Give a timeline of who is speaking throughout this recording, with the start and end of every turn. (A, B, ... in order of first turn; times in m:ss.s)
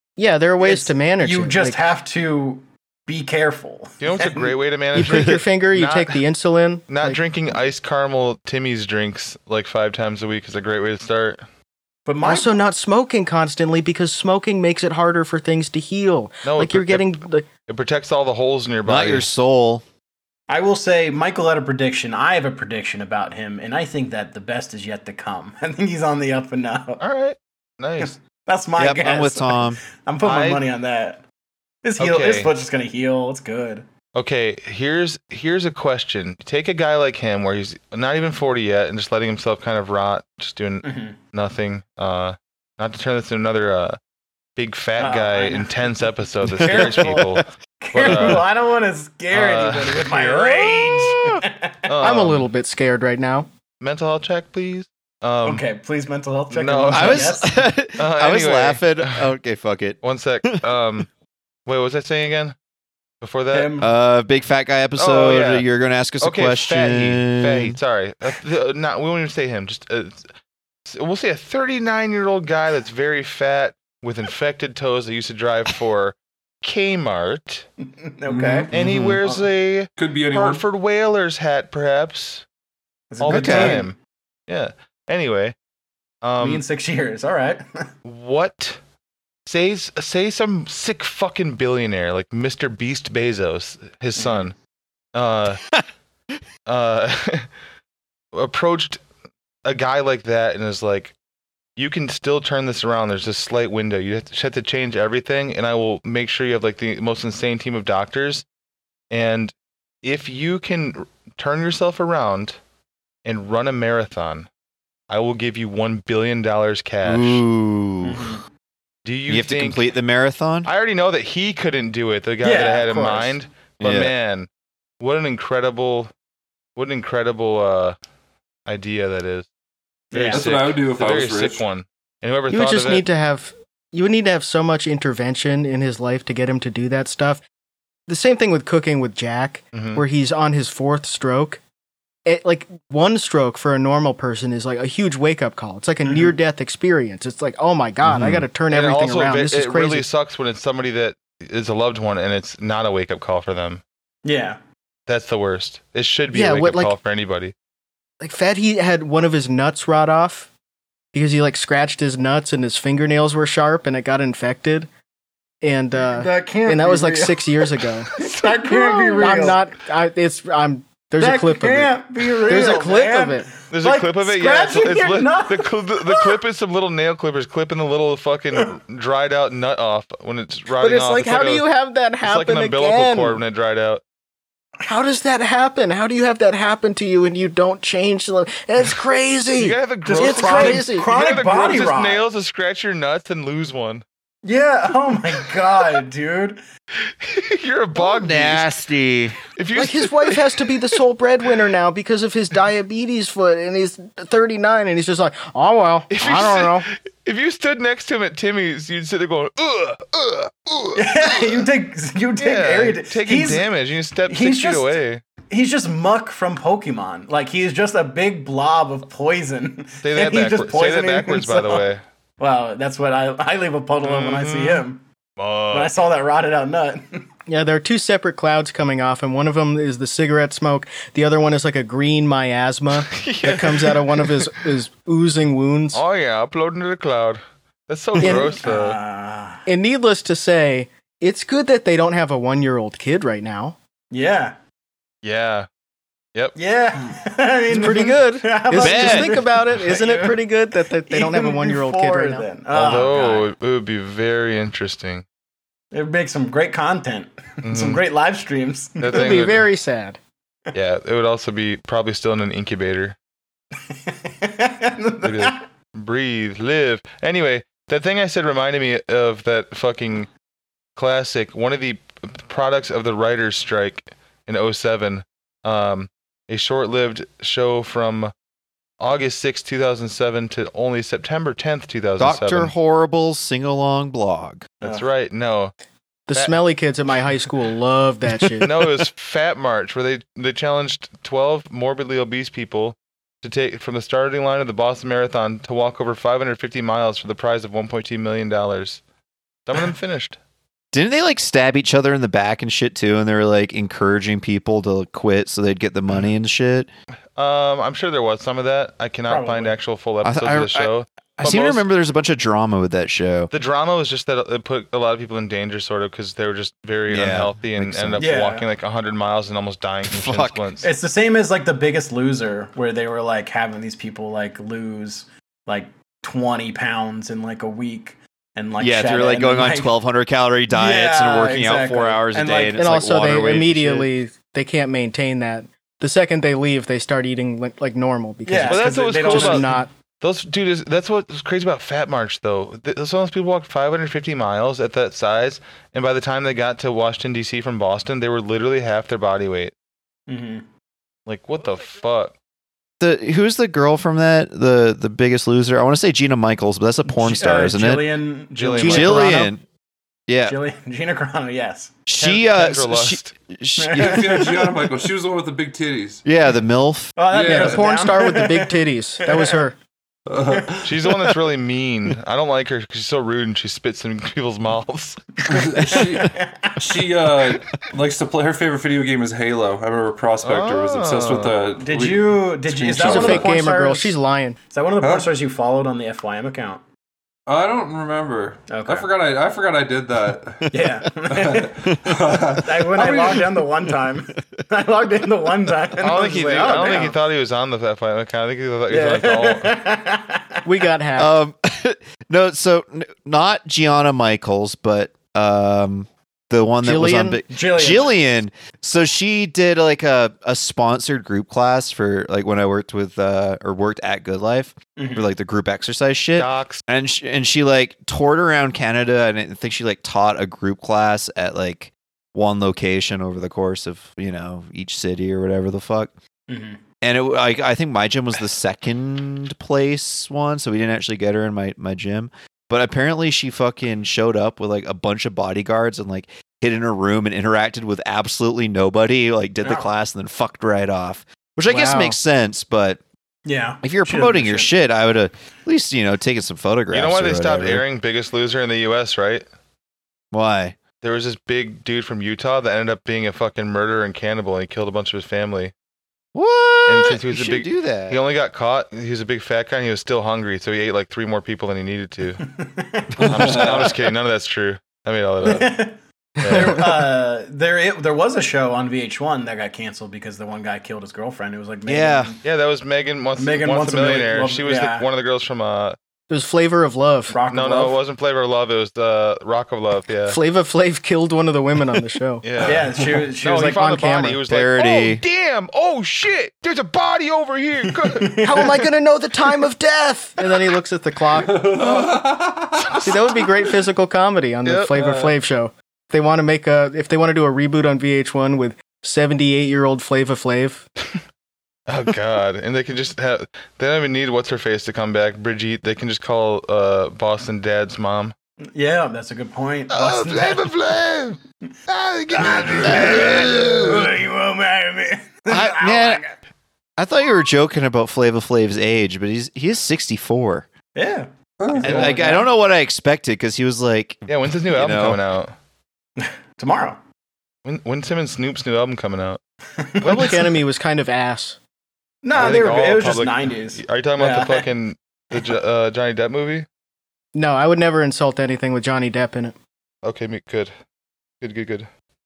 0:00.2-0:01.8 A
0:00.6-0:04.6 B
0:04.0-0:06.2 C
0:04.9-0:07.2 A
0:05.1-0:05.4 D
0:06.9-0:11.4 C
0:12.0-0:12.5 B
0:12.2-0:17.4 A
0:16.4-0:19.3 C
0:18.8-0:19.8 D
0:20.5-0:27.0 B
0:27.0-0:28.1 C
0:28.0-0:31.2 B
0:28.8-0:29.8 D
0:30.2-0:30.6 C
0:31.8-0:33.8 B
0:32.0-0:32.5 C
0:34.1-0:44.0 C
0:40.8-0:41.2 B
0:44.6-0:48.5 C
0:45.0-0:52.0 B
0:46.5-0:47.4 D
0:48.0-0:48.4 D
0:49.3-0:51.3 C
0:51.9-0:52.5 C
0:52.0-0:53.5 A
0:53.8-0:55.6 C
0:55.4-0:57.5 B
0:56.5-0:57.4 C
0:56.9-1:00.6 D
0:58.0-0:59.2 C
1:00.0-1:01.1 C
1:01.6-1:02.5 C
1:03.2-1:03.8 C
1:03.5-1:03.9 B
1:03.8-1:07.8 D
1:05.0-1:05.6 C
1:06.2-1:10.2 C
1:10.9-1:17.6 C
1:17.8-1:18.7 B
1:18.3-1:18.7 E
1:18.7-1:22.4 C
1:18.7-1:19.2 D
1:20.0-1:20.6 E
1:23.1-1:23.9 B
1:23.2-1:23.9 C
1:23.3-1:23.8 D
1:24.5-1:25.6 C
1:26.2-1:26.6 C
1:26.4-1:27.9 B
1:28.0-1:28.8 C
1:29.4-1:34.5 C
1:34.2-1:34.5 B
1:35.1-1:35.6 C
1:36.6-1:37.5 C
1:38.3-1:39.0 C
1:39.6-1:41.1 C
1:41.8-1:48.4 C
1:49.1-1:52.6 C
1:53.2-1:54.5 C
1:55.1-1:57.4 C
1:57.0-1:58.4 D
1:58.0-1:58.4 B
1:59.0-1:59.9 C
1:59.3-2:00.7 D
2:00.6-2:04.5 C
2:02.4-2:03.3 B
2:03.8-2:04.1 D
2:05.0-2:06.1 C
2:06.8-2:08.0 C
2:08.7-2:09.5 C
2:10.1-2:10.4 B
2:10.1-2:13.0 C
2:10.3-2:11.6 E
2:12.5-2:17.4 A
2:18.1-2:21.6 A
2:19.7-2:20.0 C
2:22.2-2:30.0 A
2:26.0-2:26.3 B
2:28.0-2:28.4 D
2:28.7-2:33.8 C
2:34.2-2:34.6 B
2:35.1-2:37.5 C
2:36.3-2:36.9 A
2:38.2-2:40.5 A
2:41.1-2:44.9 A
2:45.6-2:48.1 A
2:46.1-2:47.6 B
2:48.2-2:49.6 B
2:48.2-2:49.4 C
2:49.1-2:53.5 A
2:51.2-2:56.4 B
2:53.7-3:01.6 C
3:00.7-3:03.4 A
3:02.2-3:04.0 C
3:04.8-3:11.1 A
3:09.6-3:14.0 C
3:10.0-3:12.2 B
3:14.4-3:16.6 B
3:17.2-3:18.7 C
3:17.9-3:19.4 D
3:19.6-3:20.6 C
3:19.7-3:26.9 A
3:26.1-3:31.7 C
3:30.9-3:33.7 B
3:32.4-3:35.3 C
3:34.3-3:45.0 B
3:40.0-3:42.0 C
3:44.0-3:44.8 C
3:45.4-3:46.0 C
3:45.7-3:47.3 B
3:47.5-3:56.0 A
3:53.1-3:54.5 C
3:55.9-3:59.0 C
3:58.2-3:58.5 A
3:58.2-3:59.6 B
3:59.6-4:03.8 A
4:04.1-4:04.6 B
4:05.2-4:05.7 C
4:06.6-4:10.4 B
4:07.7-4:12.5 A
4:08.8-4:09.4 D
4:11.1-4:13.5 B
4:12.7-4:15.2 C
4:15.9-4:19.4 B
4:17.6-4:18.0 C
4:19.0-4:19.7 C
4:19.1-4:20.2 A
4:20.7-4:23.2 C
4:23.8-4:25.6 B
4:25.2-4:30.3 C
4:31.0-4:38.3 C
4:39.0-4:42.7 C
4:42.2-4:44.7 D
4:44.8-4:45.7 C
4:46.3-4:48.8 A
4:48.6-4:59.0 C
4:59.6-5:00.4 C
5:00.9-5:06.9 D
5:07.4-5:11.8 C
5:09.3-5:09.8 B
5:10.2-5:13.5 D
5:13.5-5:20.9 C
5:17.1-5:18.3 D
5:18.2-5:18.7 B
5:20.1-5:20.7 D
5:20.8-5:29.9 B
5:28.8-5:34.1 D
5:30.7-5:32.8 B
5:32.8-5:39.9 A
5:38.4-5:39.8 B
5:38.6-5:39.7 C
5:40.2-5:49.7 C
5:50.3-5:50.6 B
5:51.2-5:52.3 C
5:53.0-5:58.1 D
5:57.0-5:59.3 B
5:58.6-5:59.2 C
5:58.8-5:59.5 A
5:58.8-5:59.6 D
6:00.3-6:00.6 D
6:00.5-6:02.1 B
6:02.1-6:04.5 D
6:02.2-6:03.3 C
6:03.8-6:04.7 B
6:03.9-6:06.2 E
6:06.2-6:07.1 D
6:07.2-6:09.7 B
6:07.3-6:07.8 E
6:07.4-6:09.7 A
6:10.3-6:10.8 E
6:10.5-6:10.9 B
6:10.8-6:15.2 C
6:15.4-6:16.8 B
6:15.5-6:23.5 E
6:20.4-6:21.6 C
6:21.8-6:24.2 B
6:23.0-6:24.6 A
6:24.7-6:26.8 B
6:25.0-6:25.3 E
6:27.5-6:33.6 E
6:28.7-6:29.1 B
6:30.7-6:31.9 B
6:31.9-6:32.4 D
6:32.6-6:37.2 B
6:36.0-6:39.8 C
6:38.9-6:40.7 B
6:40.6-6:41.3 A
6:41.2-7:06.1 D
6:46.8-6:47.4 A
6:47.5-6:48.2 B
6:55.0-6:55.3 B
6:56.4-6:56.8 C
7:06.5-7:06.8 B
7:07.0-7:23.0 D
7:19.6-7:19.9 B
7:21.7-7:22.2 A
7:23.4-7:24.7 B
7:23.8-7:27.8 D
7:26.9-7:29.4 C
7:30.3-7:30.8 D
7:31.0-7:35.7 C
7:36.3-7:38.2 D
7:36.8-7:42.4 C
7:42.4-7:43.9 B
7:43.2-7:43.9 E
7:43.2-7:45.8 C
7:45.4-7:52.4 B
7:46.4-7:46.9 C
7:51.8-7:52.3 D
7:52.4-7:56.0 C
7:53.4-7:55.0 B
7:56.3-7:57.4 A
7:57.3-7:58.0 B
7:57.5-8:00.4 C
8:00.3-8:02.4 A
8:02.4-8:08.8 C
8:02.6-8:03.8 B
8:02.6-8:03.2 E
8:03.4-8:04.4 A
8:04.5-8:05.2 D
8:07.9-8:08.7 B
8:08.4-8:11.7 A
8:11.4-8:13.0 E
8:11.7-8:13.4 C
8:13.0-8:20.8 A
8:14.6-8:14.9 C
8:14.9-8:15.3 E
8:21.9-8:28.3 C
8:28.7-8:30.8 B
8:29.9-8:34.1 C
8:32.3-8:36.4 B
8:32.8-8:33.6 D
8:35.5-8:36.2 D
8:37.0-8:40.7 D
8:40.9-8:42.5 B
8:41.6-8:42.1 E
8:41.8-8:45.2 D
8:41.9-8:42.1 C
8:44.3-8:45.5 C
8:46.2-8:47.0 B
8:47.6-8:49.4 C
8:49.8-8:50.4 B
8:50.0-8:51.6 A
8:50.1-8:50.4 C
8:52.2-8:54.7 B
8:52.3-8:56.7 C
8:57.3-8:59.6 A
9:00.0-9:00.7 C
9:01.4-9:01.9 C